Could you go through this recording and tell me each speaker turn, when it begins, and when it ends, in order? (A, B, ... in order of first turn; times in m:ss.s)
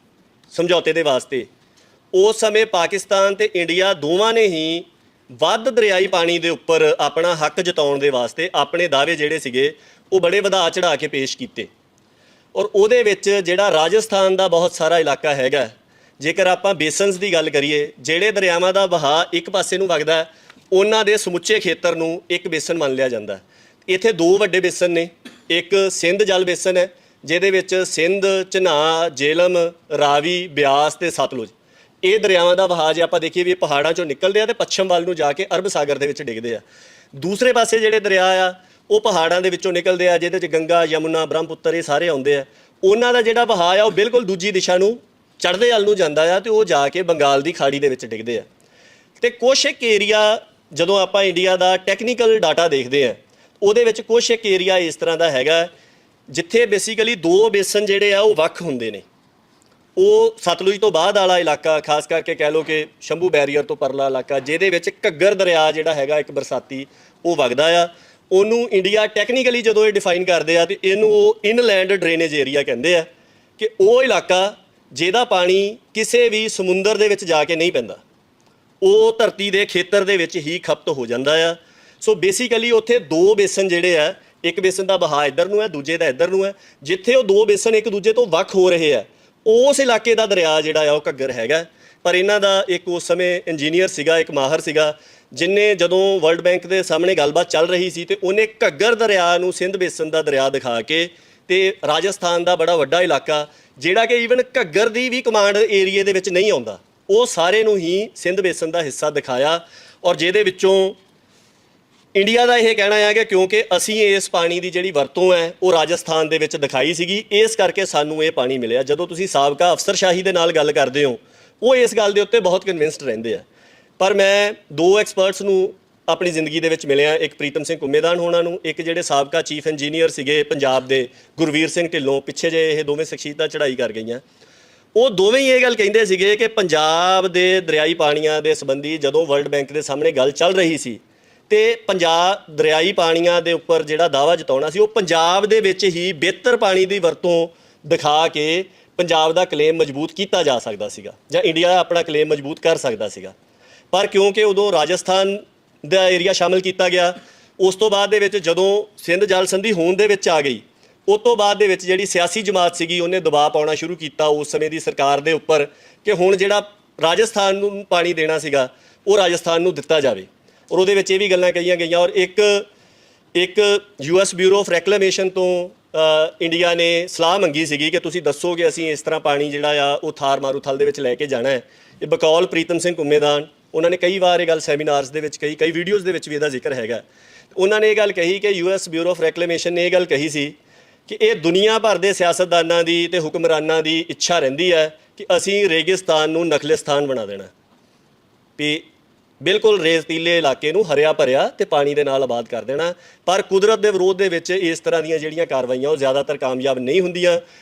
0:00.5-0:01.5 A
0:02.1-0:11.7 A
0:12.5-0:36.6 A
0:37.1-0:48.4 A
0:49.2-0:55.7 A
0:56.3-0:59.0 A
1:00.0-1:18.0 A
1:18.8-1:51.0 A
1:52.1-2:03.4 A
2:04.0-2:14.2 A
2:14.9-2:33.3 A
2:33.9-2:52.6 A
2:53.3-3:07.0 A
3:07.5-3:10.6 A
3:11.1-3:17.5 A
3:18.6-3:18.9 A
3:19.4-3:27.4 A